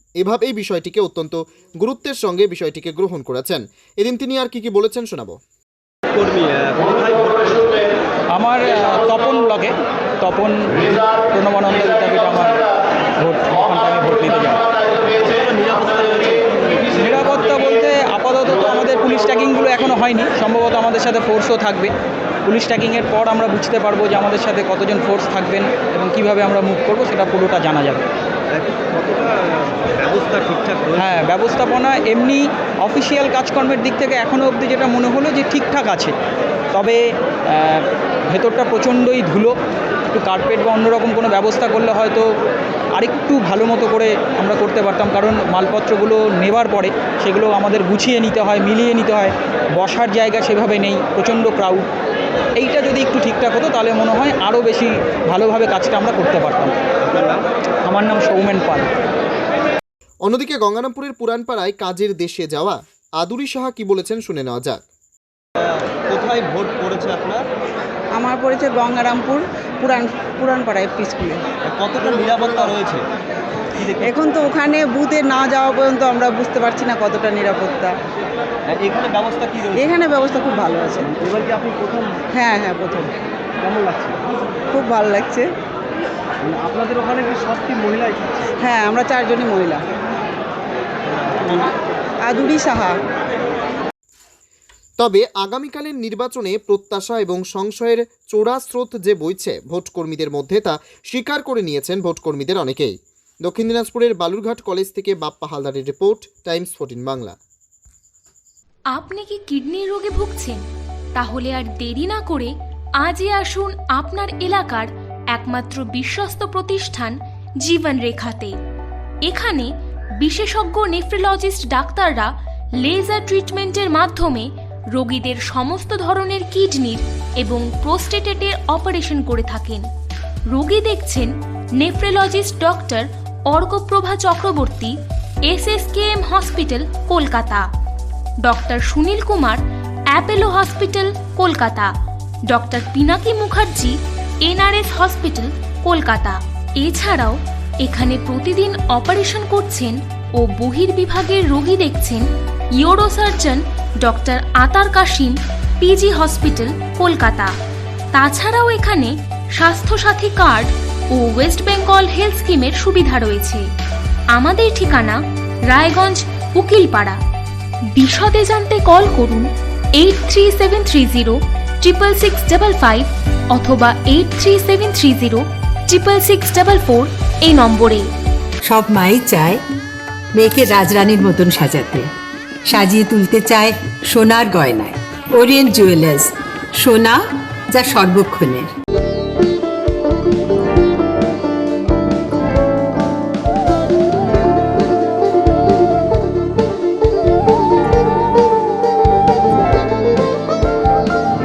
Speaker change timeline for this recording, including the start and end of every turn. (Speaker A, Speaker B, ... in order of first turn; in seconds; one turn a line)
Speaker A: 0.2-5.4
Speaker B: 6.1-7.9
Speaker C: 8.3-12.6
Speaker C: 13.2-14.7
Speaker B: 15.1-16.9
Speaker C: 16.9-21.9
Speaker C: 22.4-28.0
Speaker B: 28.5-31.2
Speaker C: 30.9-36.1
Speaker C: 36.7-39.5
Speaker C: 40.1-42.3
Speaker C: 42.9-51.9
Speaker C: 52.6-56.7
Speaker B: 57.0-57.4
Speaker C: 57.8-58.9
Speaker A: 60.2-64.8
Speaker B: 65.8-67.5
Speaker D: 68.2-71.4
Speaker B: 71.7-73.0
Speaker B: 73.7-74.1
Speaker D: 74.0-77.9
Speaker B: 78.7-79.9
Speaker D: 79.8-81.1
Speaker D: 82.3-83.1
Speaker B: 83.8-84.1
Speaker D: 84.7-85.5
Speaker D: 88.6-89.8
Speaker D: 92.2-93.0
Speaker A: 95.0-107.4
Speaker E: 108.9-110.6
Speaker E: 111.1-118.5
Speaker E: 119.2-129.9
Speaker E: 130.5-134.9
Speaker E: 135.5-137.7
Speaker E: 138.4-141.9
Speaker E: 142.5-152.2
Speaker E: 152.8-157.5
Speaker E: 158.1-163.7
Speaker E: 164.3-167.2
Speaker E: 167.9-178.1
Speaker F: 178.6-179.6
Speaker F: 180.3-182.1
Speaker F: 182.7-188.7